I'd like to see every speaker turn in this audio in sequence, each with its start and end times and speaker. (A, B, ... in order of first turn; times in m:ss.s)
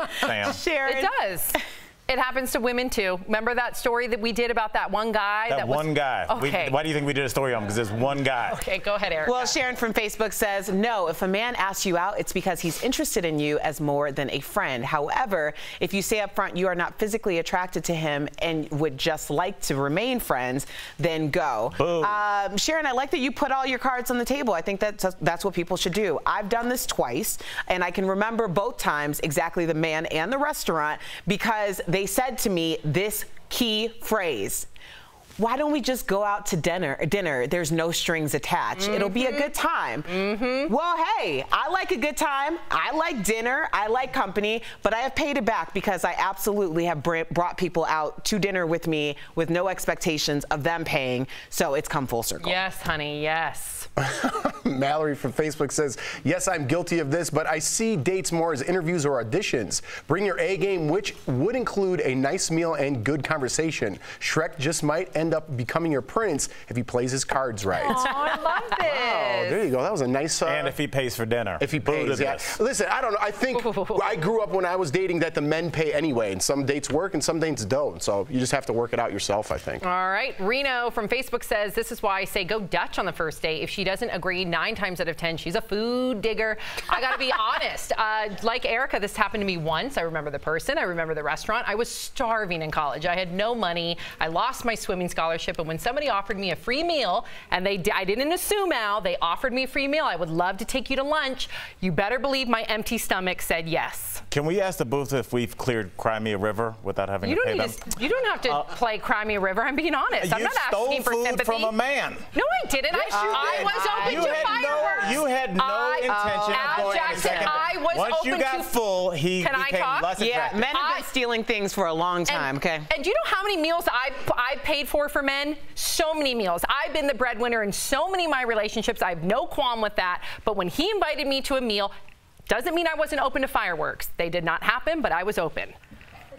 0:00.2-0:00.6 A
0:00.4-0:01.1 B
0:00.8-0:06.8 C
0:05.5-0:08.6 A
0:08.4-0:09.6 C
0:09.2-0:34.7 B
0:21.7-0:22.2 A
0:35.4-0:52.6 B
0:38.8-0:39.5 C
0:40.1-0:40.7 C
0:52.4-0:53.9 C
0:54.0-1:08.2 D
1:07.7-1:09.6 C
1:08.7-1:10.8 D
1:10.4-1:12.6 A
1:11.6-1:19.8 D
1:13.5-1:14.2 C
1:19.8-1:44.2 C
1:44.3-1:47.8 A
1:47.2-1:51.7 C
1:50.2-1:52.3 A
1:52.3-1:58.7 C
1:52.9-2:00.7 A
1:53.1-1:55.2 B
1:56.0-1:57.6 B
1:59.4-2:00.2 C
2:00.2-2:02.9 B
2:00.7-2:01.1 C
2:02.3-2:11.9 C
2:12.5-2:15.8 C